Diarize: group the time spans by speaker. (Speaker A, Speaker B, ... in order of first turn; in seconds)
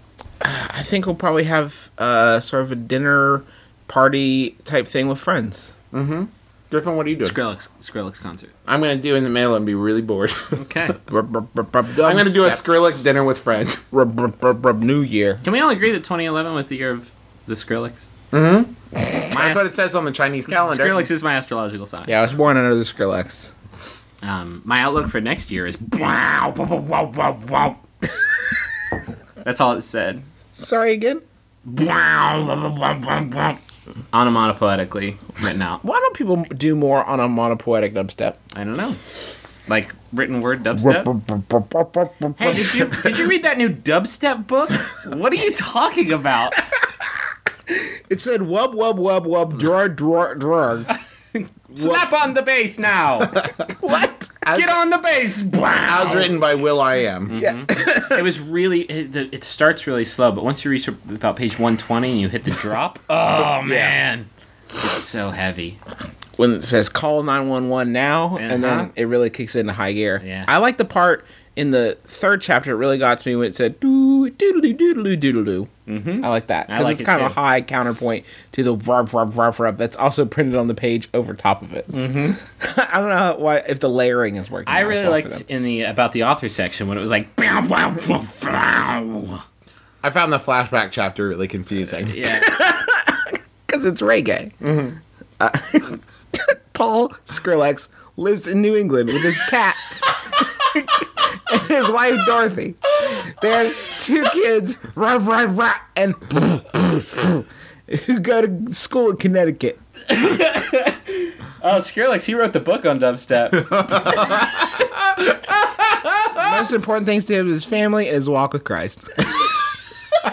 Speaker A: 0.4-5.7, 11.1-12.6, 13.9-15.4, 22.1-23.5, 26.1-28.3, 30.6-33.6, 35.8-38.4, 40.7-42.9, 47.7-50.9, 51.8-52.1, 53.8-54.8, 57.3-58.2, 63.6-63.9, 66.4-85.4, 92.2-94.5, 95.4-109.8, 116.4-119.2
Speaker B: 5.9-7.4, 8.7-10.6, 12.0-13.8, 18.3-21.1, 55.9-57.4, 90.0-92.2, 94.6-95.0, 113.9-114.8
Speaker C: 7.2-8.5, 10.6-11.0, 15.4-18.1, 19.3-19.7, 20.5-22.1, 24.2-26.2, 29.4-30.2, 34.1-35.8, 38.5-39.0, 39.7-41.1, 42.4-46.6, 51.3-53.5, 54.5-56.3, 57.3-65.8, 68.3-68.9, 70.2-70.5, 75.9-77.4, 81.9-82.4, 84.7-89.4, 92.1-92.5, 110.1-114.1